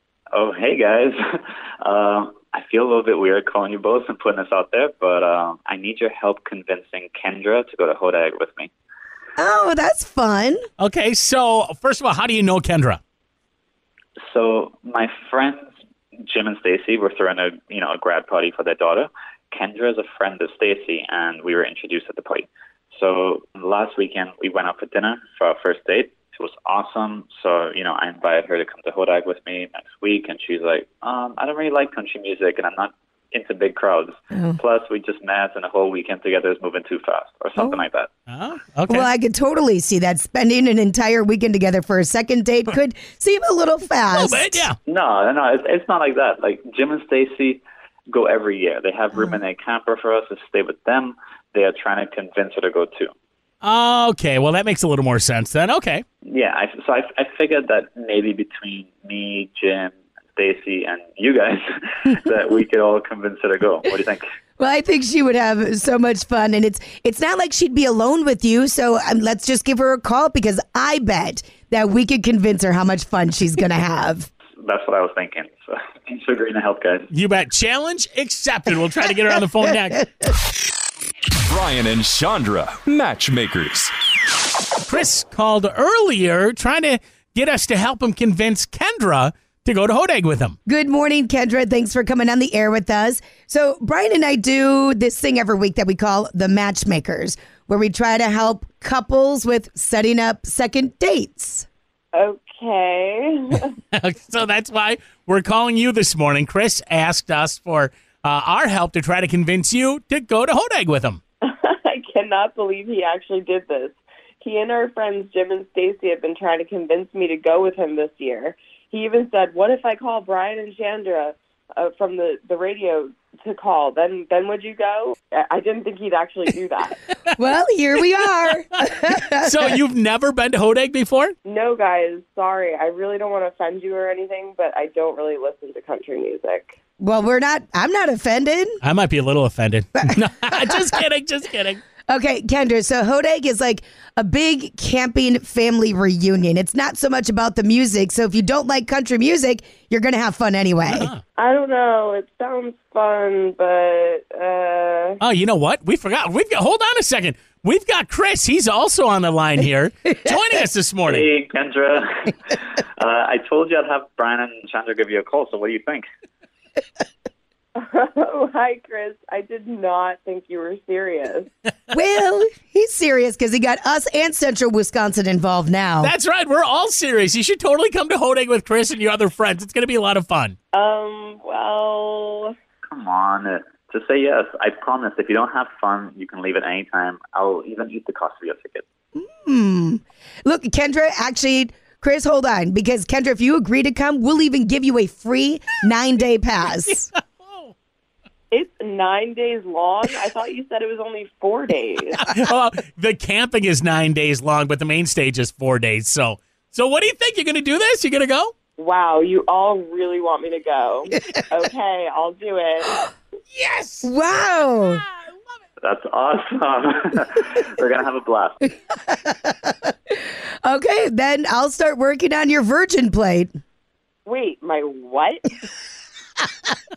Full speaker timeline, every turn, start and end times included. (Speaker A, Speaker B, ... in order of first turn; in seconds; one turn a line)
Speaker A: 0.3-1.2
Speaker A: 1.8-8.7
Speaker B: 9.4-10.6
Speaker C: 10.8-13.0
Speaker A: 14.3-15.7
Speaker A: 16.3-38.1
Speaker B: 34.3-34.6
Speaker B: 37.6-37.8
Speaker C: 38.3-39.1
Speaker B: 38.9-44.7
Speaker C: 44.1-44.8
Speaker A: 44.9-53.1
Speaker C: 53.6-56.0
Speaker A: 56.2-64.2
Speaker B: 64.6-74.3
Speaker A: 74.6-77.1
Speaker C: 77.1-80.1
Speaker D: 81.5-83.9
Speaker C: 84.9-90.6
Speaker B: 90.7-101.7
Speaker E: 102.1-103.8
Speaker C: 103.9-111.2
Speaker E: 111.4-127.0
Speaker B: 127.4-129.6
Speaker C: 129.4-131.3
Speaker E: 131.4-136.8
Speaker B: 137.0-138.8
Speaker C: 138.8-141.8
Speaker B: 142.1-151.1
Speaker C: 150.9-151.2
Speaker E: 151.4-155.2
Speaker C: 155.2-161.3
Speaker A: 161.1-166.0
Speaker E: 167.8-171.5
Speaker B: 171.9-176.1
Speaker C: 176.0-180.6
Speaker E: 180.7-182.5
Speaker A: 182.9-188.8
Speaker B: 189.2-197.1
Speaker C: 197.1-197.7
Speaker E: 198.5-202.2
Speaker C: 202.2-208.5
Speaker E: 208.8-213.1
Speaker C: 213.5-214.1
Speaker B: 214.0-215.0
Speaker A: 215.8-218.6
Speaker B: 219.0-220.1
Speaker B: 220.6-223.5
Speaker E: 224.3-225.6